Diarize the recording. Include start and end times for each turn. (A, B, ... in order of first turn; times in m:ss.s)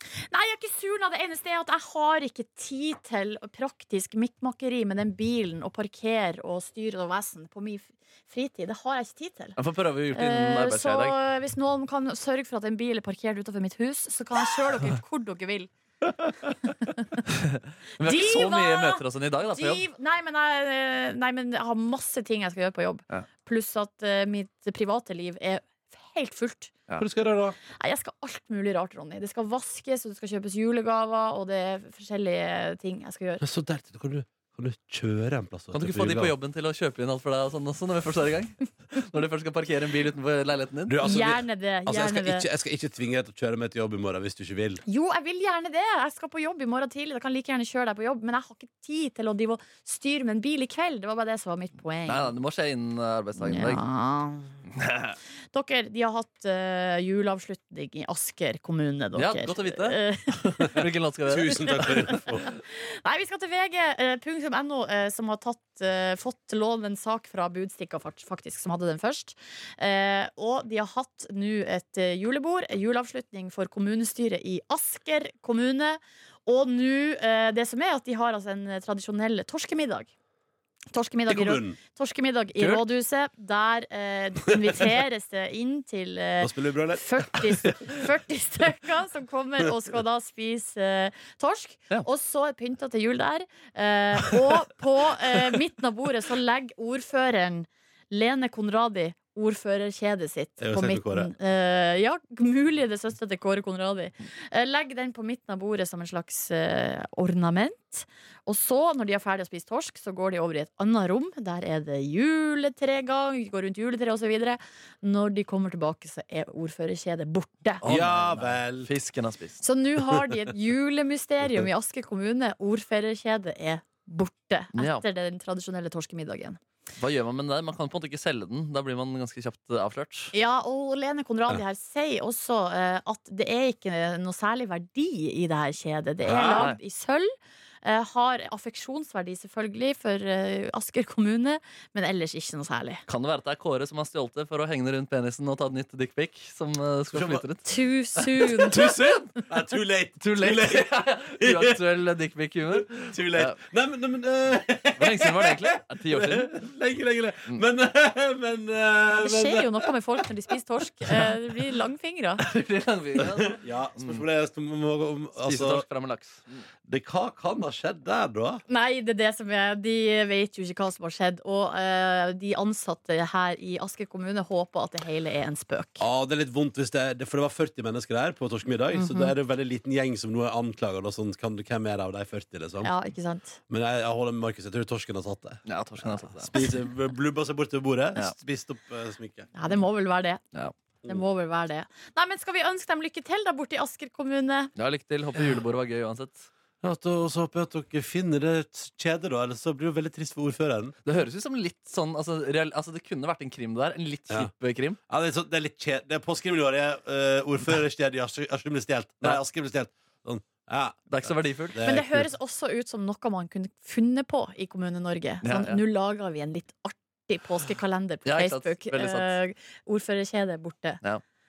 0:00.3-0:09.6 A
0:09.6-0:11.2 B
0:10.1-0:15.7 A
0:17.3-0:19.8 B
0:18.0-0:26.7 A
0:27.0-0:27.6 C
0:27.8-0:33.4 A
0:33.4-0:36.3 C
0:35.7-0:41.0 B
0:40.9-0:44.8 C
0:41.0-0:42.5 A
0:44.8-0:52.3 A
0:52.1-0:53.8 B
0:53.4-0:54.6 A
0:54.7-0:55.2 B
0:55.5-1:00.8 A
0:59.1-1:02.2 B
1:01.2-1:02.5 C
1:01.8-1:20.1 A
1:20.9-1:57.8 A
1:21.3-1:21.8 C
1:26.4-1:27.6 C
1:40.6-1:41.3 C
1:57.8-1:59.6 B
1:57.8-1:58.9 C
1:59.6-2:06.6 A
2:04.7-2:05.0 B
2:07.0-2:10.3 B
2:10.3-2:17.3 A
2:16.2-2:16.7 C
2:17.8-2:23.0 A
2:23.1-2:29.3 B
2:27.1-2:27.4 C
2:27.6-2:28.9 A
2:28.6-2:31.8 C
2:30.2-2:33.6 B
2:32.7-2:39.9 C
2:35.0-2:36.6 B
2:39.1-2:42.4 A
2:42.4-2:44.2 B
2:43.2-2:45.8 C
2:45.4-2:46.6 B
2:46.9-2:48.6 C
2:48.7-2:56.0 A
2:56.0-3:02.9 C
2:58.9-2:59.3 A
3:02.8-3:03.6 A
3:03.7-3:09.5 C
3:05.6-3:06.5 B
3:09.5-3:10.4 A
3:11.0-3:14.7 A
3:14.8-3:16.5 B
3:16.8-3:21.0 C
3:21.0-3:25.0 B
3:25.1-3:32.3 C
3:31.1-3:31.8 B
3:31.8-3:41.0 A
3:35.4-3:35.8 B
3:38.2-3:39.4 B